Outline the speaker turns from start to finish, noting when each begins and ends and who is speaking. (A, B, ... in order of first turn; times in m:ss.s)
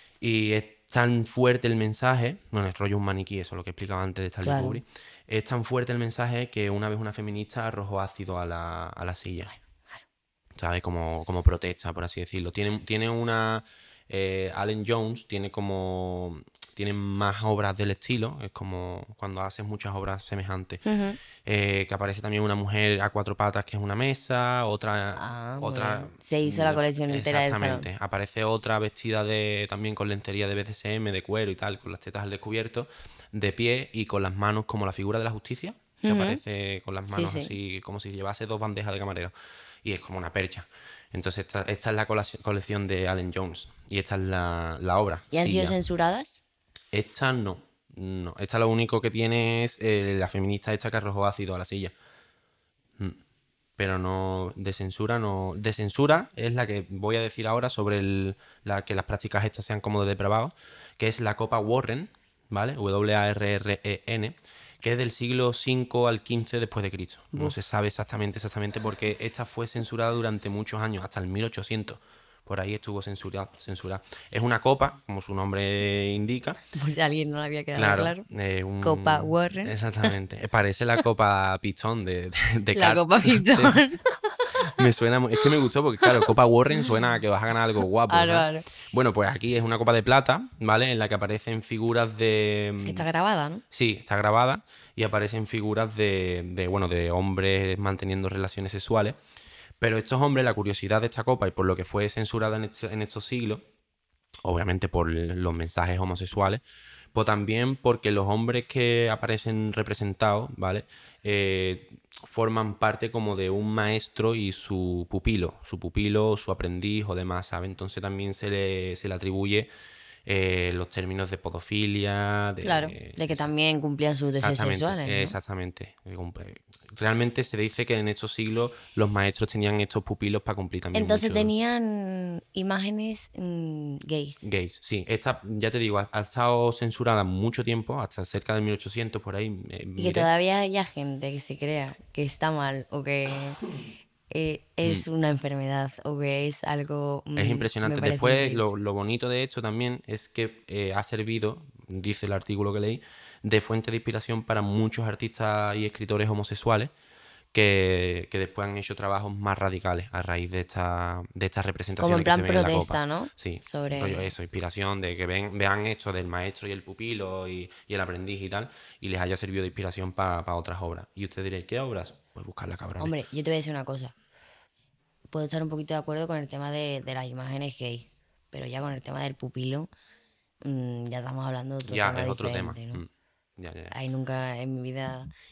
0:00.2-0:09.5 A
0:04.4-0:04.8 B
0:10.6-0:20.8 A
0:20.8-0:21.2 B
0:21.4-0:39.3 A
0:25.2-0:27.9 B
0:36.0-0:36.4 B
0:37.1-0:37.6 B
0:39.8-0:45.8 A
0:45.3-0:46.4 B
0:46.9-0:51.9 A
0:53.8-1:16.6 A
1:16.8-1:18.2 B
1:17.7-1:23.8 A
1:18.8-1:20.1 B
1:22.7-1:24.8 B
1:24.6-1:33.1 A
1:28.1-1:28.7 B
1:32.8-1:33.6 B
1:33.7-1:39.2 A
1:39.8-1:43.6 A
1:44.4-1:59.7 A
2:00.3-2:03.5 A
2:02.6-2:05.4 B
2:04.4-2:11.5 A
2:10.9-2:14.5 B
2:14.4-2:20.3 A
2:20.0-2:23.6 B
2:24.3-2:28.6 B
2:27.4-2:36.9 A
2:37.5-2:53.2 A
2:42.0-2:44.3 B
2:53.0-2:54.1 B
2:55.3-2:59.9 B
3:00.6-3:03.0 B
3:01.9-3:04.0 A
3:03.9-3:05.3 B